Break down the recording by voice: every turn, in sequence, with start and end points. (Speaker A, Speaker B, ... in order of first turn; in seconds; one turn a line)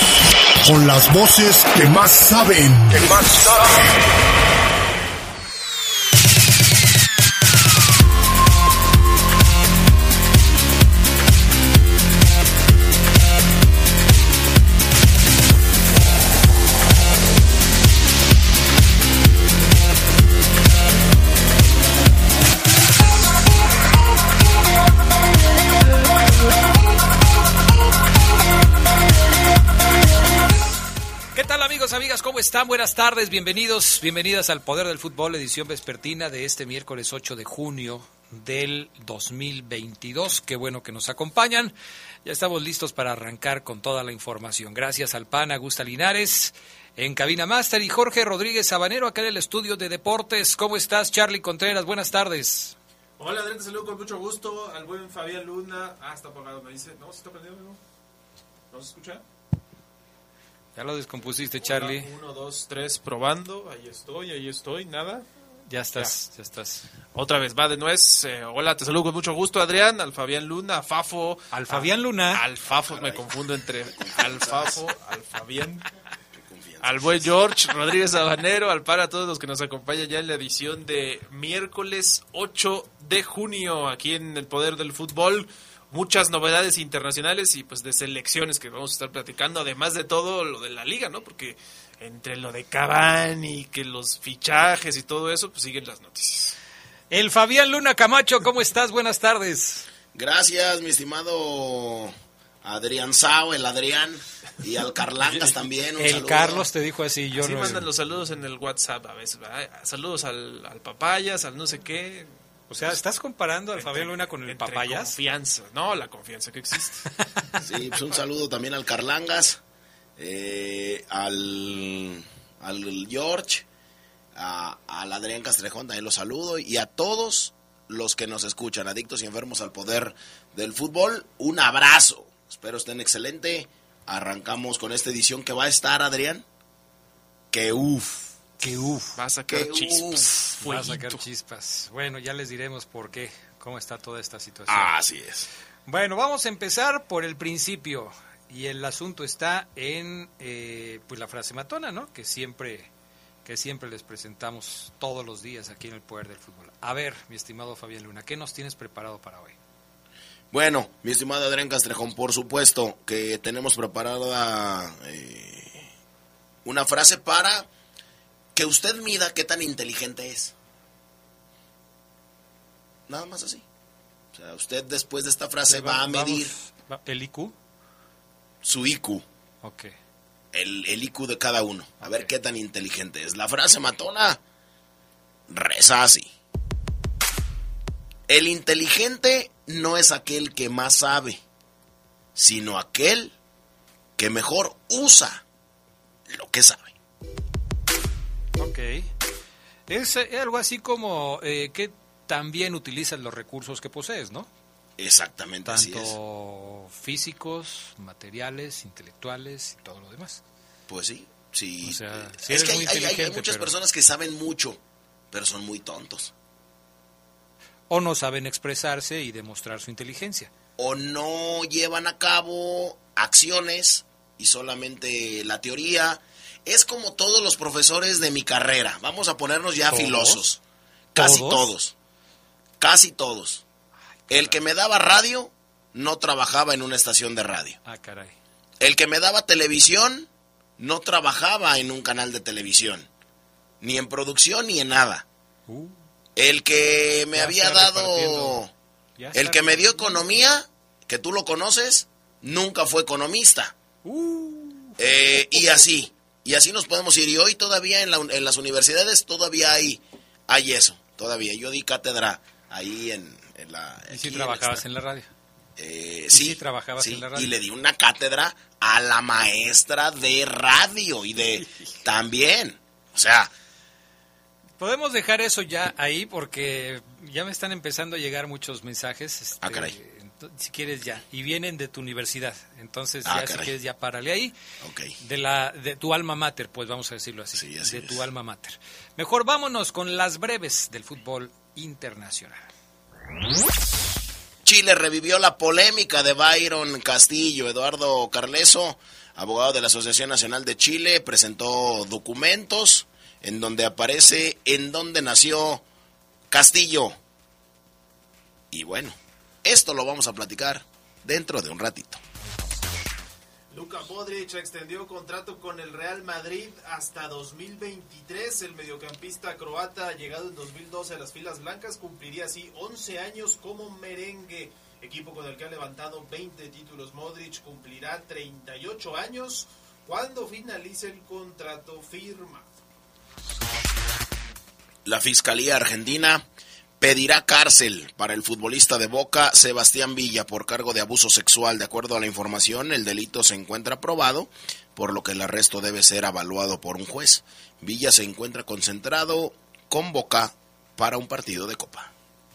Speaker A: 0.6-3.5
Speaker B: 31.3-41.7
Speaker B: 42.2-52.8
Speaker C: 53.2-57.8
Speaker C: 58.7-59.2
Speaker B: 60.7-62.1
Speaker C: 61.6-65.2
Speaker B: 65.7-66.9
Speaker C: 67.1-75.8
Speaker B: 71.5-72.4
Speaker D: 72.9-73.2
Speaker D: 73.9-74.8
Speaker D: 76.4-77.0
Speaker C: 76.8-96.5
Speaker B: 97.1-99.9
Speaker D: 100.1-106.7
Speaker B: 105.2-107.8
Speaker C: 107.4-112.9
Speaker B: 112.7-115.2
Speaker C: 113.7-117.1
Speaker D: 117.6-119.6
Speaker D: 120.2-123.7
Speaker D: 124.3-136.4
Speaker D: 137.5-138.3
Speaker B: 138.6-139.1
Speaker C: 139.2-141.2
Speaker D: 139.5-140.3
Speaker B: 140.6-144.9
Speaker D: 144.7-145.5
Speaker B: 145.9-152.9
Speaker B: 153.4-159.6
Speaker D: 160.5-165.9
Speaker D: 166.6-167.7
Speaker D: 168.5-170.5
Speaker D: 173.1-173.6
Speaker D: 174.3-176.5
Speaker B: 175.7-177.5
Speaker D: 178.6-179.2
Speaker B: 179.6-179.9
Speaker D: 180.5-184.4
Speaker B: 182.0-182.3
Speaker D: 185.5-186.3
Speaker D: 188.3-191.4
Speaker D: 192.3-193.3
Speaker D: 194.2-195.4
Speaker D: 196.3-196.9
Speaker B: 198.6-199.1
Speaker B: 199.9-204.5
Speaker D: 205.0-206.1
Speaker B: 205.6-210.4
Speaker D: 210.9-214.8
Speaker B: 211.8-213.7
Speaker D: 215.3-216.3
Speaker B: 217.9-220.5
Speaker D: 220.8-230.6
Speaker B: 229.9-230.4
Speaker D: 231.1-231.9
Speaker B: 231.2-231.7
Speaker D: 232.8-233.6
Speaker B: 234.3-234.6
Speaker D: 234.3-237.8
Speaker B: 237.8-238.3
Speaker D: 238.8-243.1
Speaker D: 243.8-245.2
Speaker B: 245.7-246.0
Speaker D: 246.3-248.7
Speaker B: 247.3-248.6
Speaker B: 249.2-250.4
Speaker D: 249.3-253.7
Speaker B: 254.0-255.6
Speaker D: 255.0-264.8
Speaker B: 264.1-265.3
Speaker D: 265.8-273.5
Speaker B: 266.3-267.5
Speaker B: 271.6-271.9
Speaker B: 274.8-284.5
Speaker D: 279.6-279.9
Speaker D: 283.2-283.7
Speaker D: 284.8-285.1
Speaker B: 285.2-292.6
Speaker D: 287.5-288.3
Speaker D: 294.6-305.8
Speaker D: 306.5-307.2
Speaker D: 308.7-312.2
Speaker C: 313.7-332.7
Speaker D: 335.0-336.4
Speaker D: 337.0-352.1